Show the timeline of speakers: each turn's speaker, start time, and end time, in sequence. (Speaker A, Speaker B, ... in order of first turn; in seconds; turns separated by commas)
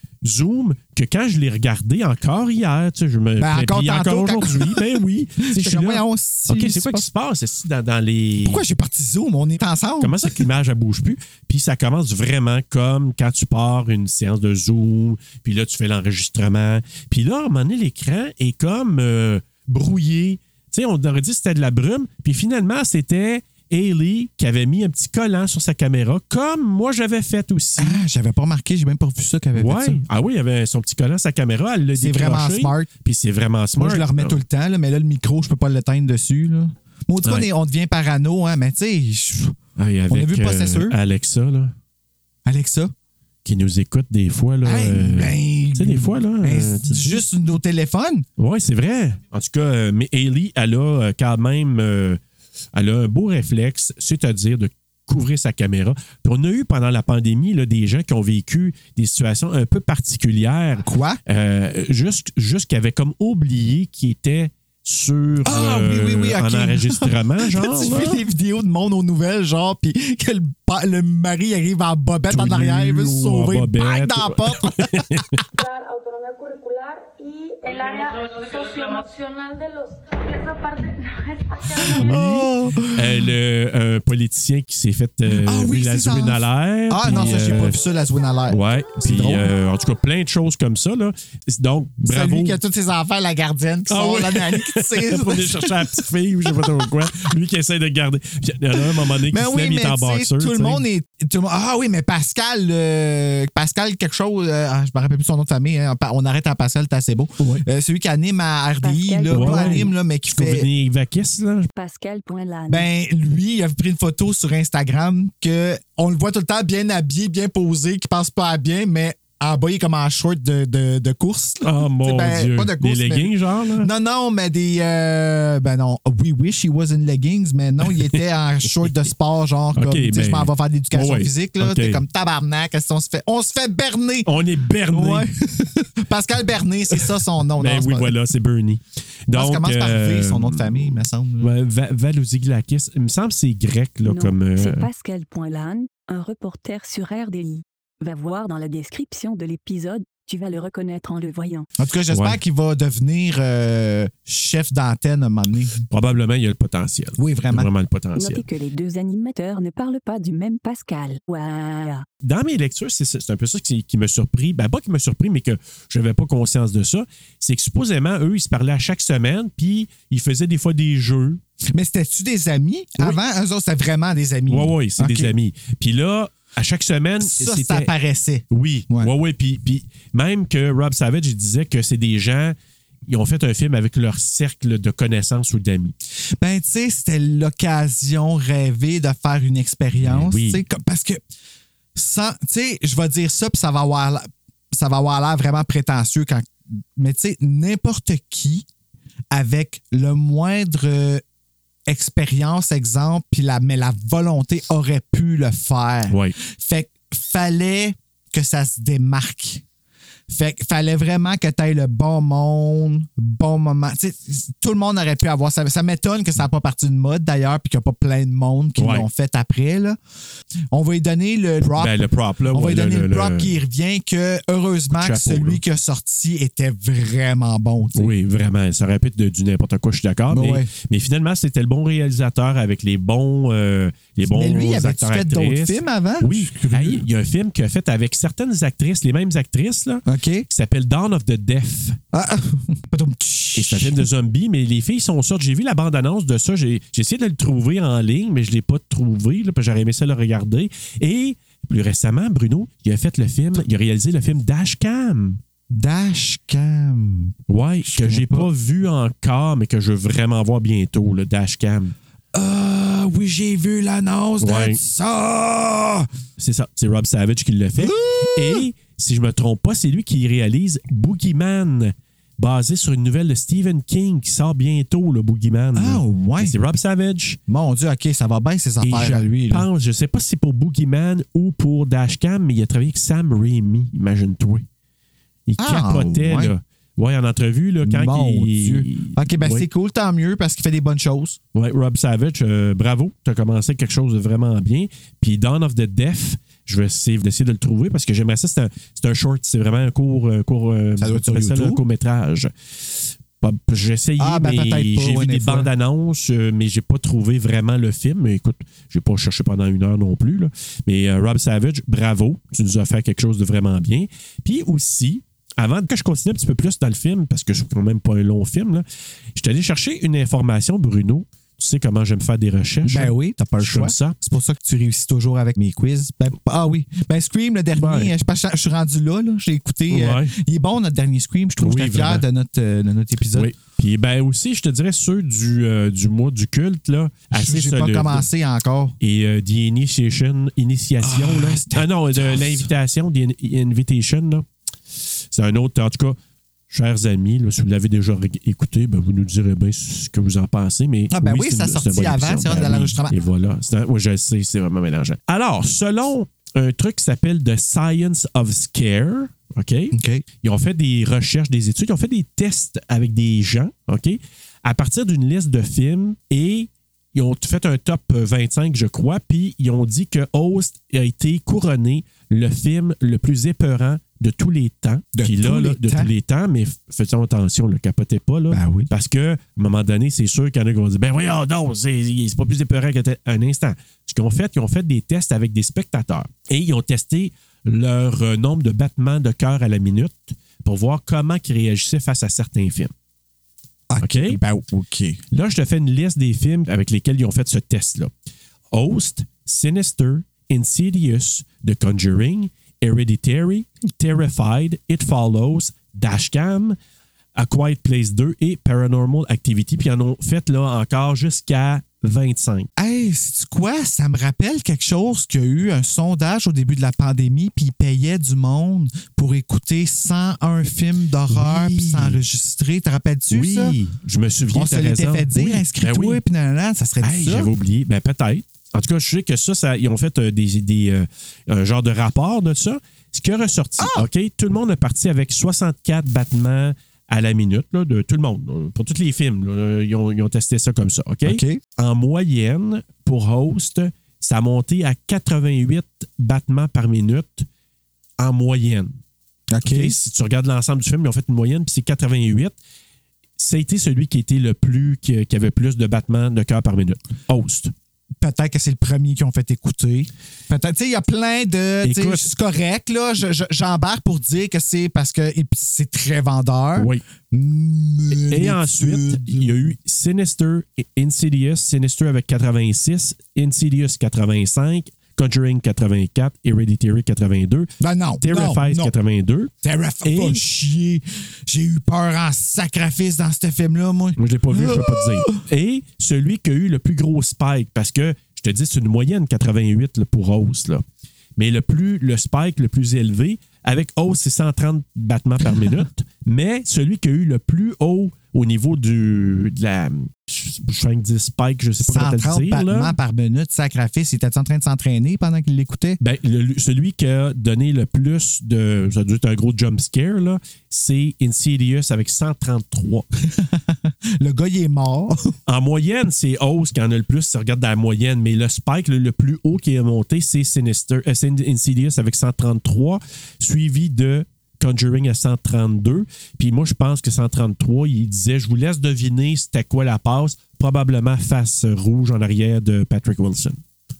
Speaker A: 0.2-8.6, Speaker B: 3.4-4.8, Speaker B: 5.4-7.1, Speaker B: 8.4-10.2, Speaker A: 10.0-28.0, Speaker B: 27.8-30.0, Speaker A: 29.5-34.4, Speaker B: 31.9-32.9, Speaker B: 33.8-39.5, Speaker A: 39.8-41.7, Speaker B: 40.1-41.0, Speaker B: 42.5-42.9, Speaker A: 43.4-47.2, Speaker B: 44.6-48.2, Speaker A: 48.4-52.2, Speaker A: 52.7-68.2, Speaker B: 60.8-61.2, Speaker B: 65.4-75.0, Speaker A: 72.3-75.4, Speaker C: 75.6-81.5, Speaker B: 81.7-83.3, Speaker A: 81.8-87.8, Speaker B: 85.3-89.5, Speaker A: 88.5-92.6, Speaker B: 92.0-96.9, Speaker A: 93.9-100.8, Speaker B: 98.8-110.7, Speaker A: 107.4-107.6, Speaker D: 108.8-110.0, Speaker A: 109.3-111.7, Speaker D: 111.7-112.9, Speaker B: 112.7-134.3, Speaker A: 121.6-123.9, Speaker A: 127.9-128.1, Speaker A: 129.7-132.0, Speaker A: 134.2-135.2, Speaker B: 134.9-138.1, Speaker A: 137.6-144.9, Speaker B: 139.3-141.5, Speaker D: 144.0-151.7, Speaker B: 151.8-155.8, Speaker A: 152.1-152.4, Speaker A: 155.9-158.4, Speaker B: 157.2-157.7, Speaker D: 158.2-162.0, Speaker A: 162.2-171.4, Speaker B: 171.7-175.3, Speaker A: 174.5-177.9, Speaker B: 177.2-179.1, Speaker A: 178.5-182.5, Speaker A: 183.1-185.9, Speaker B: 186.4-191.2, Speaker A: 190.0-190.6, Speaker B: 191.9-198.7, Speaker B: 199.3-201.2, Speaker B: 201.9-209.6, Speaker A: 206.1-206.3, Speaker B: 210.3-220.0, Speaker A: 218.8-219.1, Speaker B: 220.7-228.1, Speaker A: 221.6-223.5, Speaker A: 224.9-225.6, Speaker A: 227.9-242.0, Speaker B: 230.3-230.7, Speaker B: 234.2-237.0, Speaker B: 240.1-240.4, Speaker B: 242.1-244.0, Speaker A: 243.5-255.4, Speaker B: 255.7-258.5, Speaker A: 257.5-261.9, Speaker B: 262.3-266.1, Speaker A: 264.4-264.8, Speaker A: 266.4-277.4, Speaker B: 267.8-268.6, Speaker B: 275.7-276.6, Speaker B: 277.5-279.7, Speaker A: 278.8-284.6, Speaker A: 285.5-289.7, Speaker B: 285.6-286.5, Speaker B: 287.8-291.4, Speaker A: 291.5-318.8, Speaker B: 301.0-301.8, Speaker B: 304.2-305.7, Speaker A: 319.4-324.1, Speaker B: 322.8-333.5, Speaker A: 327.7-328.1, Speaker A: 329.9-330.3, Speaker A: 331.6-332.2, Speaker A: 333.3-338.3, Speaker B: 337.3-338.9, Speaker A: 339.0-344.4, Speaker B: 341.0-342.7, Speaker A: 345.3-346.2, Speaker A: 346.7-392.9, Speaker B: 351.1-353.1, Speaker B: 359.9-360.2, Speaker B: 375.1-376.1, Speaker B: 378.5-378.9, Speaker B: 393.9-395.2, Speaker A: 394.0-394.4, Speaker A: 395.3-398.1, Speaker A: 398.7-406.8, Speaker A: 407.4-412.7, Speaker B: 412.8-423.8, Speaker A: 421.3-422.2, Speaker A: 423.3-426.2, Speaker B: 424.5-427.5, Speaker A: 427.0-447.5, Speaker B: 433.8-434.1, Speaker B: 441.2-441.6, Speaker A: 448.2-448.9, Speaker B: 449.5-449.9, Speaker A: 449.6-452.5, Speaker A: 453.4-457.7, Speaker B: 458.2-469.7, Speaker A: 461.8-462.3, Speaker A: 466.8-467.0, Speaker A: 468.1-479.5, Speaker B: 477.8-478.9, Speaker B: 479.6-485.4, Speaker A: 480.0-480.4, Speaker A: 484.2-490.8, Speaker A: 491.4-502.9, Speaker B: 501.8-506.0, Speaker A: 506.0-513.0, Speaker B: 513.2-515.3, Speaker A: 515.5-533.6